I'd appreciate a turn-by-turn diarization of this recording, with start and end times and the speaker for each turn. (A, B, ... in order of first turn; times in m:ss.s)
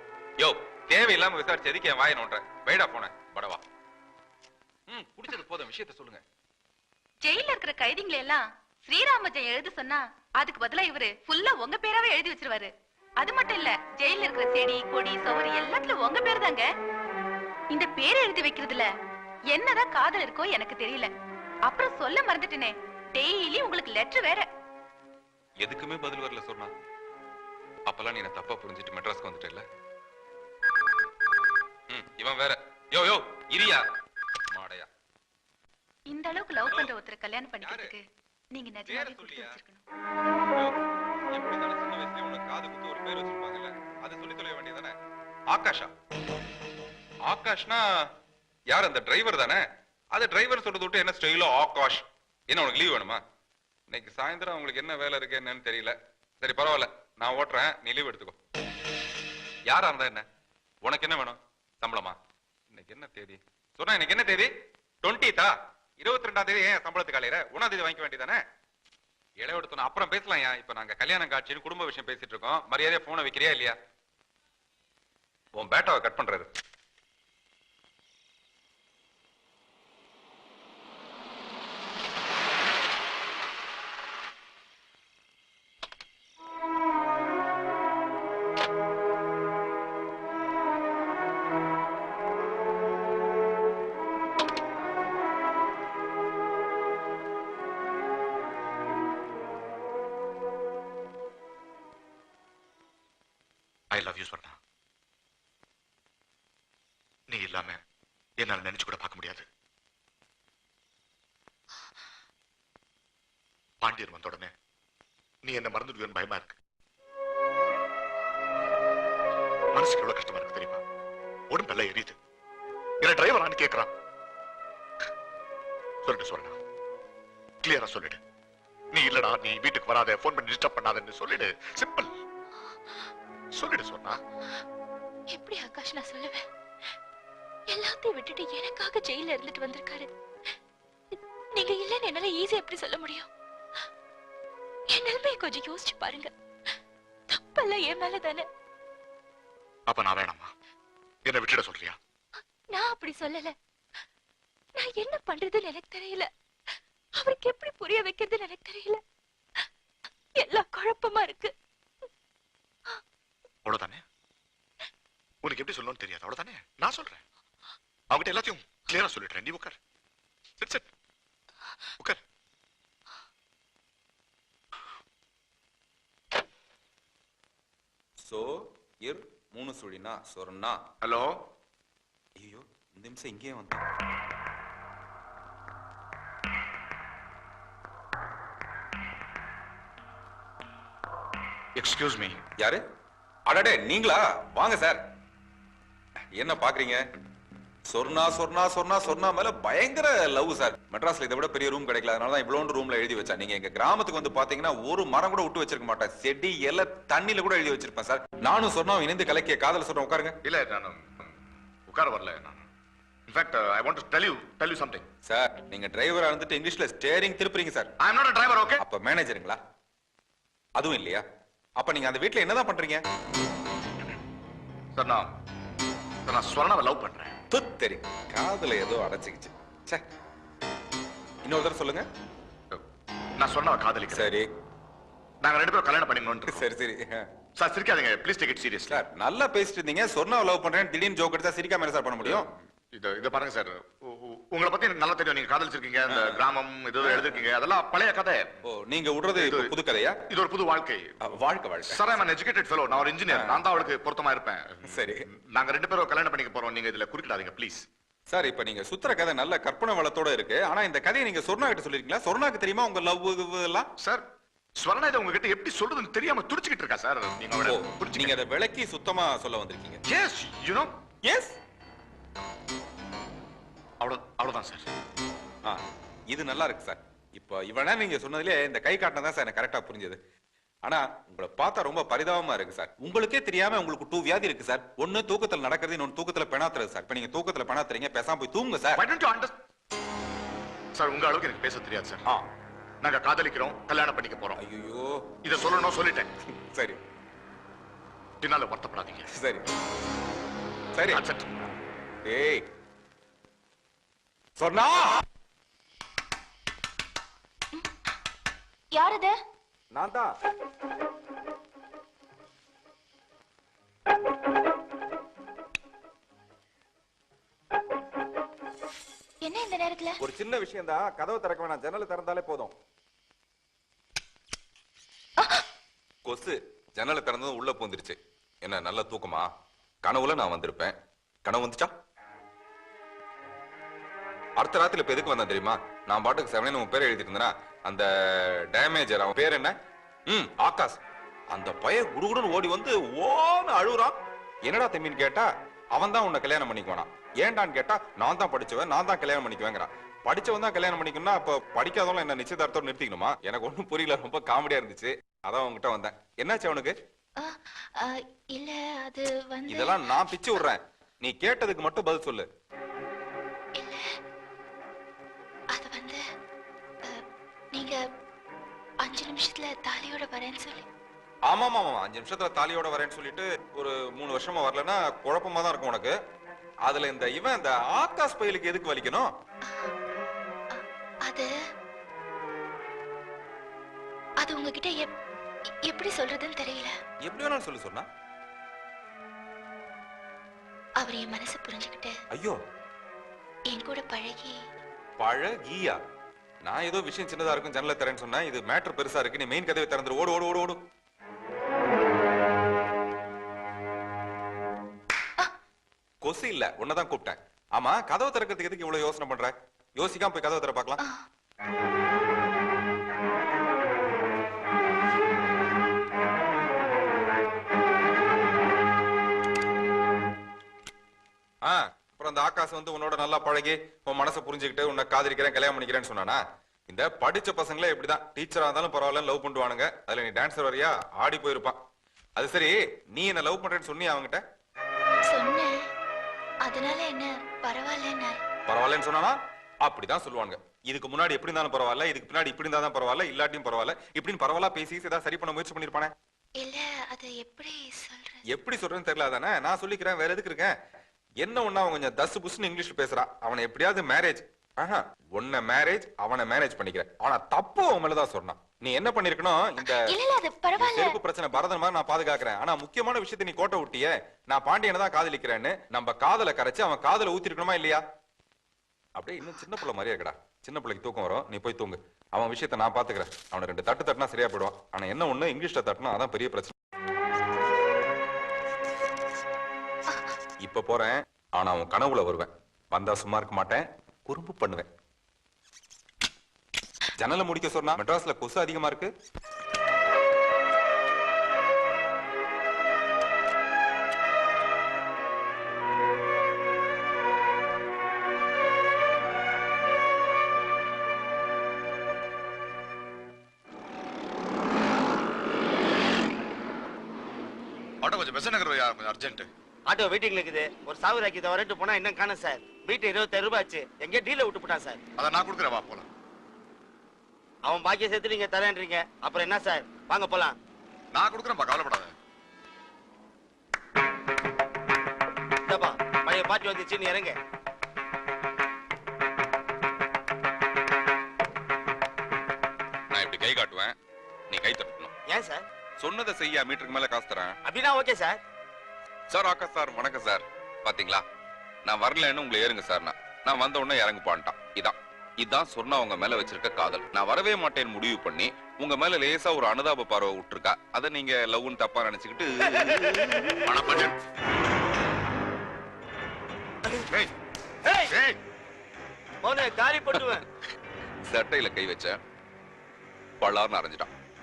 0:00.4-0:03.6 A
0:04.9-0:06.2 A
0:07.2-0:16.7 B
0:17.7-0:18.9 B
0:19.5-0:21.1 B
0:21.7-0:24.5 B
0:25.6-0:26.7 A
0:27.9-0:29.6 A
0:31.9-0:33.9 A
0:34.5-0:34.9 A
0:36.1-0:39.8 B
0:37.6-0:37.9 A
0:38.8-0:39.6 A
0:40.5-0:40.8 A
0:41.3-0:45.0 A
0:45.5-0:45.9 A
0:47.2-0:48.1 A
0:48.7-0:53.2 A
0:53.9-0:58.4 A
0:59.7-1:00.3 A
1:00.8-1:02.2 A
1:02.7-1:04.5 A
1:05.0-1:08.4 A
1:09.4-1:13.8 A
1:15.6-1:16.5 A
1:43.9-1:44.6 C
1:47.3-1:47.8 C
1:48.4-1:49.5 C
1:53.8-1:54.5 C
1:55.4-1:56.6 C
1:59.7-2:00.8 C
2:01.5-2:02.2 C
2:03.0-2:03.9 C
2:06.0-2:06.6 C
2:07.6-2:08.2 C
2:08.9-2:12.1 C
2:13.5-2:14.2 C
2:15.3-2:16.4 D
2:17.7-2:20.1 D
2:21.1-2:23.3 D
2:24.9-2:26.3 D
2:27.3-2:28.5 D
2:29.9-2:30.5 C
2:31.3-2:32.0 C
2:32.7-2:33.6 D
2:34.8-2:36.3 D
2:37.2-2:39.0 D
2:40.4-2:41.5 D
2:43.6-2:44.0 C
2:45.4-2:47.2 C
2:48.1-2:49.8 C
2:50.6-2:50.9 C
2:58.2-3:00.8 A
3:01.0-3:01.4 C
3:02.4-3:03.8 A
3:11.8-3:12.4 C
3:13.5-3:15.0 A
3:16.4-3:17.0 A
3:17.9-3:30.4 A
3:30.4-3:32.6 C
3:33.3-3:35.0 C
3:35.2-3:37.9 A
3:38.0-3:38.8 C
3:38.8-3:39.6 A
3:40.8-3:41.2 A
3:41.8-3:43.0 A
3:45.0-3:45.3 C
3:46.3-3:47.4 C
3:47.5-3:50.0 A
3:51.4-3:52.1 A
3:53.4-3:54.3 C
3:54.1-3:54.5 A
3:55.4-3:56.7 C
3:56.5-3:57.3 A
3:57.6-3:59.0 C
3:58.9-4:02.5 A
4:02.2-4:08.5 C
4:06.1-4:06.4 A
4:07.0-4:07.4 A
4:08.6-4:10.2 A
4:09.4-4:09.7 C
4:10.3-4:11.2 C
4:11.2-4:12.1 A
4:11.8-4:17.9 C
4:13.3-4:13.6 A
4:14.9-4:15.2 A
4:18.3-4:23.9 A
4:24.0-4:24.2 C
4:24.8-4:28.4 C
4:27.6-4:30.0 A
4:30.1-4:30.9 C
4:31.3-4:31.6 A
4:34.0-4:34.9 C
4:35.6-4:40.2 A
4:40.8-4:49.0 A
4:48.9-4:49.6 C
4:50.9-4:52.2 C
4:53.0-4:54.6 C
4:54.6-4:55.3 A
4:55.4-4:56.3 C
4:56.5-4:57.0 A
4:58.4-4:59.3 C
4:59.3-4:59.7 A
5:00.9-5:01.2 A
5:01.1-5:01.5 C
5:02.2-5:02.7 A
5:04.6-5:05.2 A
5:08.9-5:09.4 D
5:09.9-5:10.3 A
5:19.4-5:20.2 D
5:20.2-5:22.7 A
5:26.2-5:29.5 A
5:30.0-5:31.9 A
5:34.6-5:39.8 A
5:40.3-5:57.0 A
5:57.4-6:00.2 D
5:59.7-6:02.5 A
6:03.8-6:04.2 D
6:05.7-6:06.2 D
6:07.0-6:08.0 D
6:09.0-6:10.9 D
6:11.5-6:16.2 A
6:16.8-6:19.3 A
6:19.7-6:19.9 D
6:20.7-6:21.5 D
6:24.4-6:25.1 D
6:25.8-6:26.9 D
6:27.2-6:28.1 A
6:31.0-6:32.2 D
6:32.3-6:32.6 A
6:33.7-6:34.6 D
6:35.2-6:36.0 A
6:36.6-6:40.8 A
6:46.2-6:51.0 A
6:51.0-6:51.2 D
7:01.6-7:11.8 A
7:12.4-7:14.4 A
7:15.3-7:15.8 D
7:16.6-7:18.4 D
7:18.7-7:26.1 A
7:26.6-7:28.4 D
7:28.5-7:30.7 A
7:31.4-7:40.1 A
7:39.8-7:41.2 D
7:40.8-7:48.0 A
7:49.2-7:56.8 A
8:00.6-8:04.9 A
8:07.2-8:09.1 A
8:28.0-8:29.5 C
8:29.9-8:35.0 E
8:35.2-8:36.1 C
8:37.7-8:40.6 E
8:41.1-8:42.1 C
8:45.7-8:47.4 E
8:53.1-8:54.0 A
8:54.5-8:55.1 A
8:55.3-8:55.6 E
8:56.0-8:57.6 A
8:57.7-8:58.4 E
8:59.3-9:01.2 A
9:01.8-9:13.6 A
9:13.6-9:14.2 C
9:17.9-9:18.1 E
9:18.1-9:18.4 C
9:19.4-9:20.4 E
9:21.3-9:22.2 A
9:23.4-9:24.1 A